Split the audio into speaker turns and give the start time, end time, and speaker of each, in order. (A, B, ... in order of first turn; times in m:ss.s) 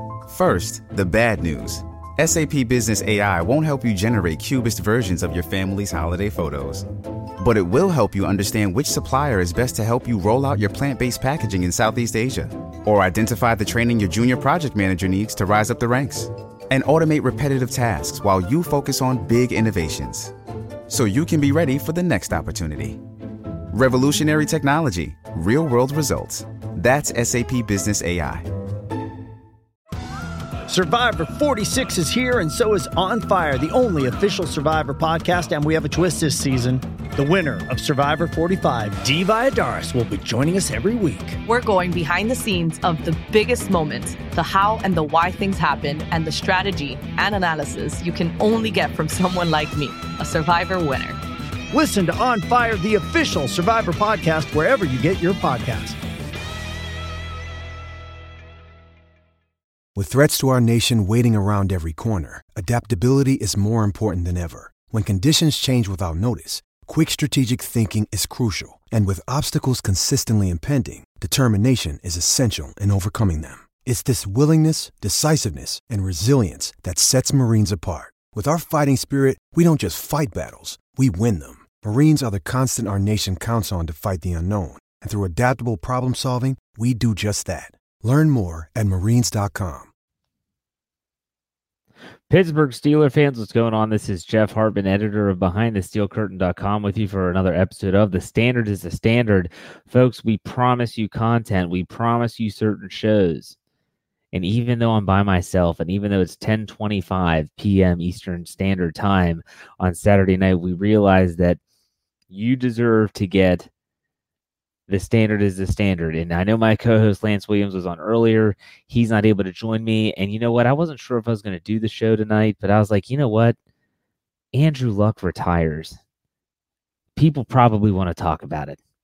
0:00.3-0:06.8 A
0:07.4-0:20.3 A
0:20.9-0:23.0 A
0:23.7-0:28.5 A
0:30.7-0:41.4 B
0:41.4-0:51.2 C
0:51.7-0:56.0 B
0:59.9-1:29.9 D
1:32.3-1:43.6 E
1:44.3-1:51.6 E
1:52.3-1:53.7 E
1:54.9-2:03.6 E
2:04.5-2:06.0 E
2:07.2-2:08.8 E